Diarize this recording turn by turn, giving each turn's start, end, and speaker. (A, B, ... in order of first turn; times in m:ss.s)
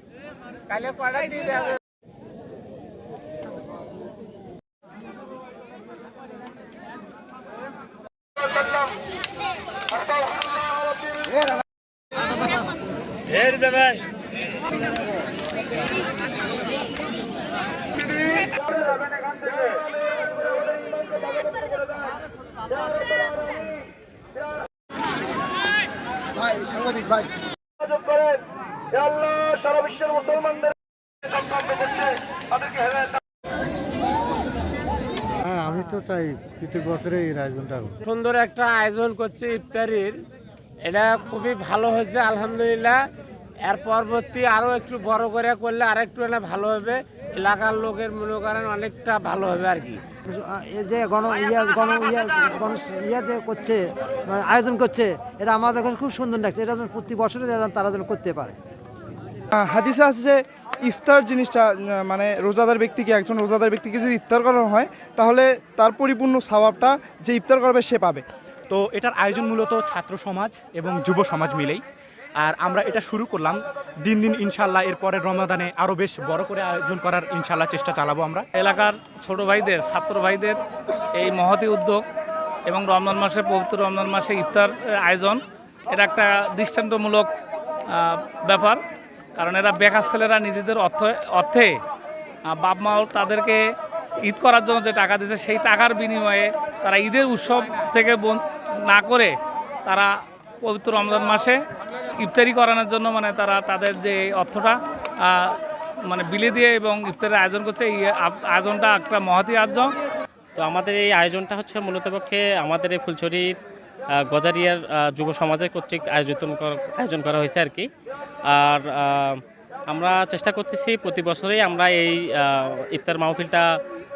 0:00.7-0:01.8 A
0:35.4-0:38.0 B
0:38.0-0:40.2 A
0:40.8-0:43.0 A
0:43.6-0:50.0 A
0:50.3-0:58.5 C
0:59.5-1:08.2 D
1:08.7-1:11.8 E
1:12.5-1:13.5 E
1:14.1-1:18.4 E
1:18.6-1:20.6 F
1:21.2-1:22.0 F
1:22.7-1:25.4 F
1:25.9-1:27.3 F
1:27.9-1:28.8 F
1:29.4-1:31.8 F
1:32.5-1:33.6 F
1:34.2-1:40.1 F
1:40.6-1:45.6 F
1:46.1-1:49.9 F
1:50.6-1:53.5 G
1:54.2-1:57.8 G
1:58.5-1:59.4 G
1:59.9-2:03.6 G